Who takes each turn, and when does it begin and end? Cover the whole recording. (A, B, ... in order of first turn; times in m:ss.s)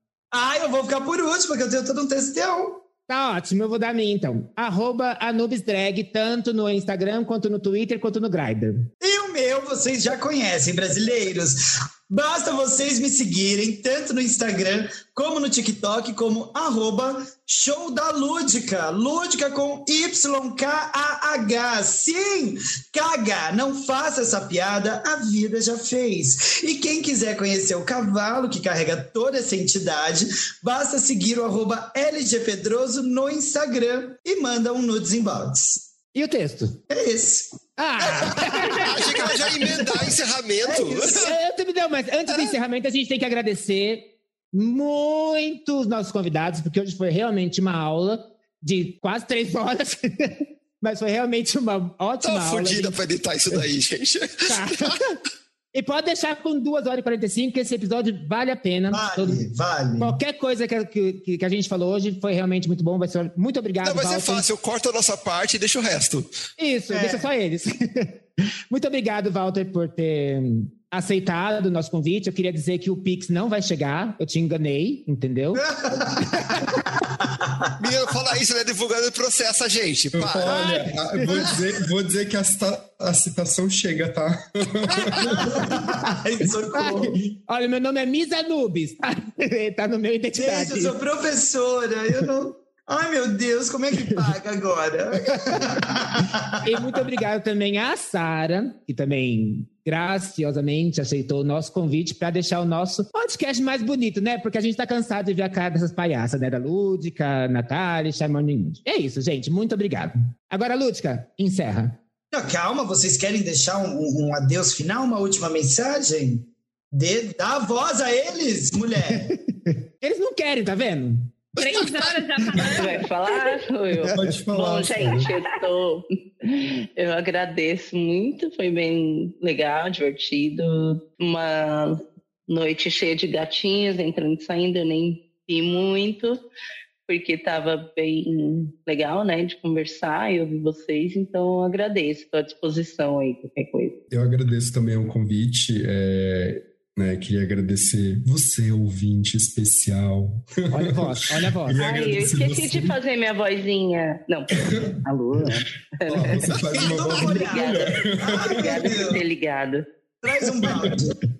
0:00.3-0:02.8 A
0:03.1-0:08.9 B
0:09.0-0:35.8 A
0:36.1-0:36.8 B
0:36.9-0:40.1 A
0:37.8-0:39.4 B
0:38.7-0:41.3 C
0:40.6-0:41.3 A
0:41.0-0:53.0 B
0:52.2-0:55.0 C
0:54.5-0:55.2 B
0:55.7-0:59.4 B
0:58.9-1:00.2 A
1:00.0-1:04.4 B
1:03.8-1:06.3 C
1:06.6-1:16.9 B
1:06.9-1:07.3 A
1:15.8-1:17.7 A
1:17.8-1:20.6 C
1:20.1-1:25.5 D
1:20.4-1:21.5 B
1:25.0-1:26.1 B
1:25.2-1:27.2 A
1:26.7-1:31.0 B
1:30.3-1:37.0 A
1:35.3-1:36.0 B
1:36.6-1:52.0 B
1:52.3-1:59.3 A
1:59.3-2:01.4 B
2:01.6-2:03.6 E
2:02.7-2:16.4 F
2:04.0-2:05.3 D
2:17.1-2:23.9 F
2:24.1-2:33.0 D
2:30.7-2:31.8 B
2:31.8-2:39.8 F
2:34.5-2:35.0 D
2:36.1-2:39.1 D
2:36.6-2:39.2 A
2:40.2-2:41.2 A
2:40.6-2:41.0 D